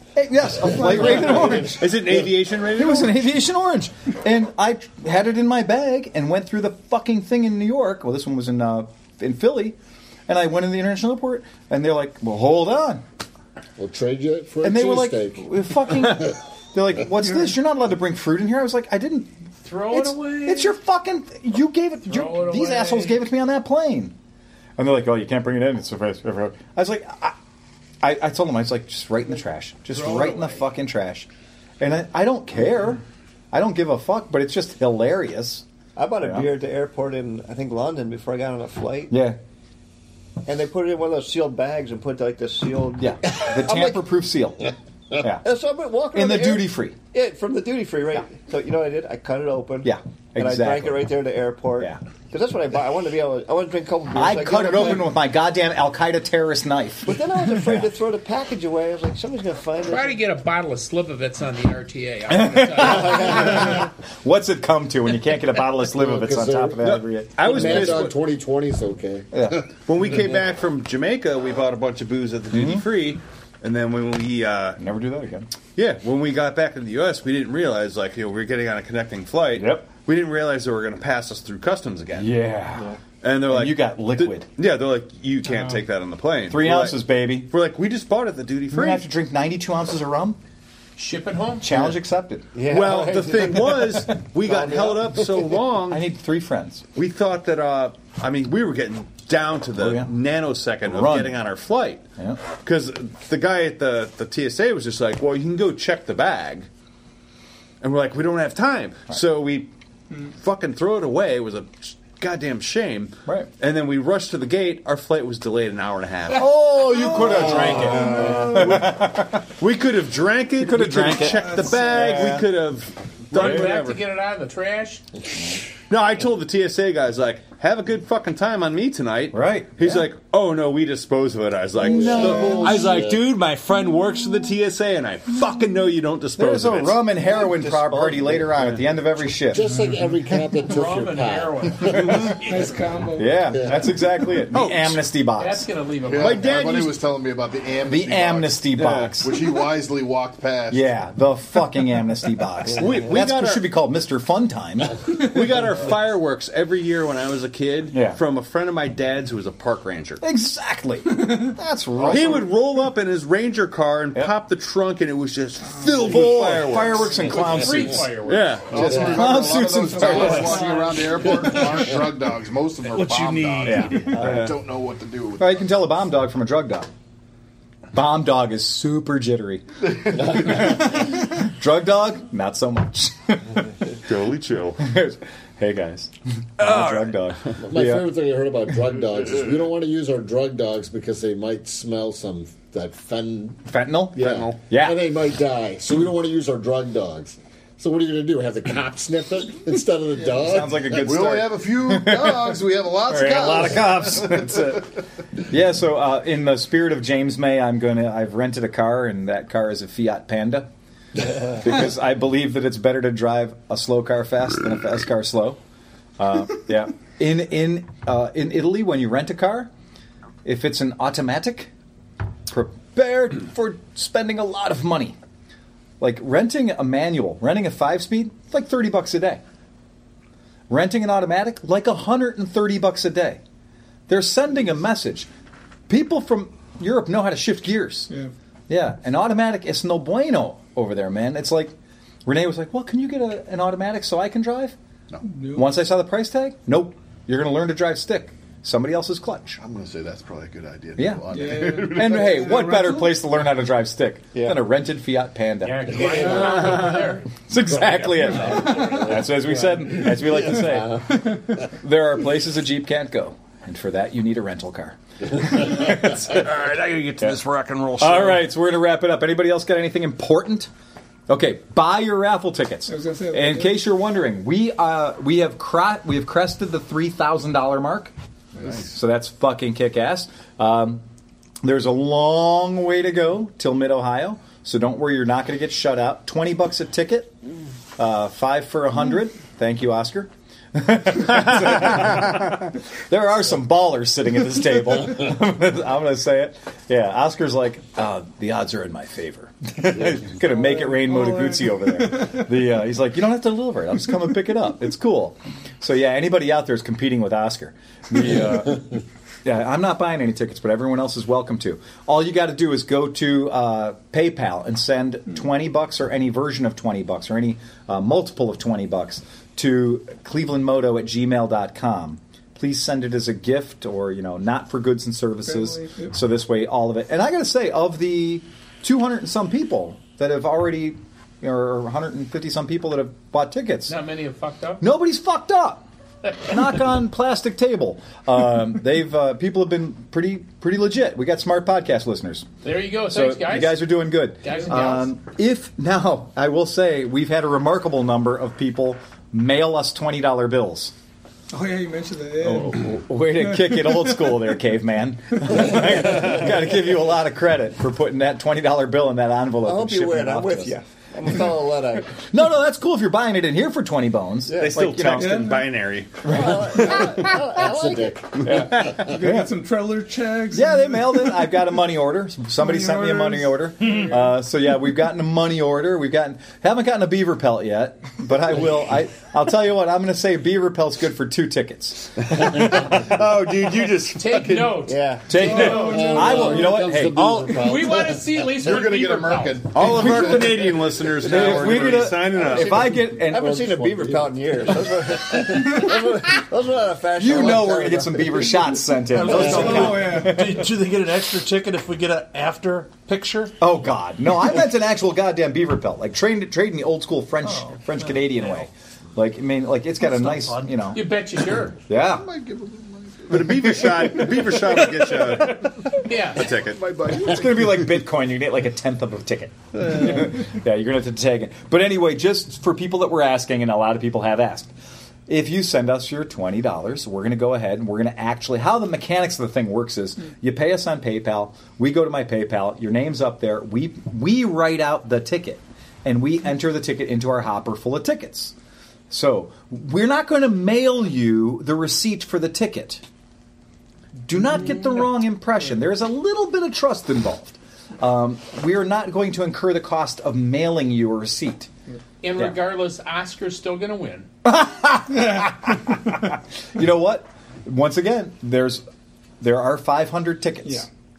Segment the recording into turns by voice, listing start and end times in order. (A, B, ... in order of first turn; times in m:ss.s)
0:00.2-0:02.0 A
0:01.1-0:03.2 B
0:01.1-0:01.5 C
0:02.8-0:09.8 A
0:10.3-0:13.0 A
0:13.8-0:15.5 D
0:14.6-0:24.1 A
0:19.6-0:20.7 E
0:22.0-0:23.2 E
0:24.8-0:27.4 A
0:28.0-0:31.3 A
0:29.9-0:30.6 E
0:31.8-0:35.6 A
0:36.0-0:39.1 F
0:36.2-0:36.5 A
0:39.1-0:39.4 A
0:40.4-0:44.0 F
0:43.0-0:45.4 A
0:45.4-0:55.1 F
0:46.1-0:47.0 A
0:49.8-0:51.1 A
0:54.1-0:57.9 A
0:57.0-1:00.2 F
0:59.8-1:03.9 E
1:02.3-1:08.1 A
1:02.8-1:03.7 F
1:05.9-1:09.6 D
1:06.8-1:08.2 B
1:09.3-1:09.6 A
1:09.8-1:14.8 B
1:12.5-1:12.8 A
1:14.8-1:15.5 A
1:15.8-1:22.3 B
1:19.6-1:19.9 A
1:22.1-1:22.9 A
1:22.7-1:23.0 F
1:23.2-1:29.0 B
1:23.4-1:24.5 A
1:26.5-1:27.5 A
1:28.7-1:30.4 A
1:31.0-1:31.7 E
1:31.6-1:32.5 A
1:32.5-1:35.4 F
1:32.6-1:36.0 B
1:35.9-1:36.8 A
1:36.9-1:42.0 B
1:39.8-1:40.1 A
1:40.8-1:41.3 A
1:42.5-1:46.7 B
1:47.8-1:56.5 B
1:56.3-1:59.4 A
1:57.0-2:04.0 B
2:00.6-2:02.5 A
2:01.3-2:02.0 G
2:03.3-2:05.0 E
2:03.3-2:03.7 A
2:05.9-2:17.1 B
2:09.3-2:10.0 A
2:11.8-2:12.9 A
2:11.8-2:13.2 D
2:16.4-2:19.6 A
2:17.2-2:18.5 F
2:19.5-2:22.4 D
2:20.6-2:22.4 E
2:22.0-2:22.7 B
2:22.4-2:23.4 G
2:23.1-2:25.7 A
2:23.5-2:23.8 D
2:24.5-2:25.0 B
2:25.4-2:26.4 E
2:26.0-2:28.6 C
2:26.1-2:27.0 B
2:27.9-2:29.3 A
2:28.8-2:29.1 B
2:29.2-2:30.9 C
2:30.7-2:35.0 A
2:32.8-2:33.6 B
2:35.1-2:40.2 B
2:37.9-2:38.2 A
2:40.2-2:42.5 A
2:42.0-2:42.5 C
2:42.1-2:47.2 B
2:45.6-2:46.2 G
2:45.8-2:48.1 A
2:47.2-2:49.0 E
2:48.2-2:49.1 B
2:48.7-2:55.6 C
2:48.7-2:50.6 A
2:48.8-2:49.2 D
2:49.8-2:51.9 G
2:50.2-2:50.6 H
2:52.9-2:54.2 H
2:53.6-2:54.5 A
2:54.2-2:54.6 B
2:55.4-2:56.9 A
2:57.9-3:03.6 A
3:04.0-3:04.8 B
3:04.8-3:08.0 A
3:06.6-3:07.5 B
3:07.6-3:13.6 D
3:13.7-3:15.0 A
3:14.1-3:21.1 D
3:14.2-3:14.6 B
3:20.3-3:24.8 A
3:21.0-3:24.9 C
3:25.4-3:30.7 A
3:31.4-3:35.6 A
3:36.2-3:39.7 A
3:40.4-3:41.7 A
3:42.5-3:45.2 A
3:46.0-3:49.4 A
3:50.7-3:53.4 A
3:54.1-3:55.3 A
3:55.9-3:58.1 A
3:58.7-4:01.7 A
4:02.2-4:04.8 A
4:05.2-4:05.7 G
4:05.5-4:09.6 A
4:09.6-4:12.8 C
4:11.0-4:16.9 A
4:11.3-4:13.2 G
4:14.3-4:14.6 F
4:15.6-4:17.3 E
4:17.5-4:26.4 A
4:18.6-4:19.2 G
4:25.8-4:28.4 B
4:28.0-4:30.7 A
4:31.3-4:38.1 A
4:32.8-4:33.8 G
4:38.6-4:39.0 C
4:38.7-4:41.0 A
4:41.6-4:47.3 A
4:48.0-5:34.0 A
5:00.4-5:02.5 G
5:25.4-5:26.1 G
5:33.9-5:34.8 E
5:34.8-5:35.8 A
5:36.4-5:42.5 A
5:42.6-5:45.1 E
5:43.1-5:50.9 A
5:51.5-5:54.4 G
5:52.4-6:00.7 A
5:59.6-6:02.2 F
6:02.2-6:05.6 A
6:04.5-6:05.0 F
6:04.6-6:07.3 B
6:05.1-6:05.8 G
6:06.2-6:08.4 F
6:06.2-6:07.2 A
6:07.5-6:09.2 D
6:08.4-6:09.0 B
6:08.4-6:09.6 A
6:08.5-6:11.6 G
6:10.5-6:23.1 A
6:12.6-6:14.2 G
6:22.3-6:24.8 B
6:24.1-6:26.7 E
6:24.8-6:25.4 F
6:25.3-6:27.7 A
6:25.3-6:26.8 G
6:25.6-6:28.4 D
6:27.2-6:27.5 B
6:27.6-6:29.6 E
6:28.6-6:31.2 C
6:29.7-6:32.9 B
6:29.8-6:33.6 A
6:32.4-6:38.7 F
6:33.2-6:35.7 D
6:37.2-6:40.7 A
6:39.1-6:43.5 H
6:39.2-6:40.1 F
6:39.4-6:40.4 G
6:43.6-6:51.0 A
6:47.4-6:48.3 H
6:50.0-6:50.9 H
6:50.9-6:51.8 E
6:51.9-6:52.2 A
6:52.1-6:55.1 C
6:53.3-6:56.8 B
6:56.0-6:56.5 E
6:56.4-6:58.0 C
6:57.1-7:04.7 A
7:05.3-7:18.5 A
7:19.1-7:23.0 A
7:24.2-7:31.7 A
7:32.2-7:34.3 E
7:34.4-7:38.8 A
7:39.4-7:40.9 A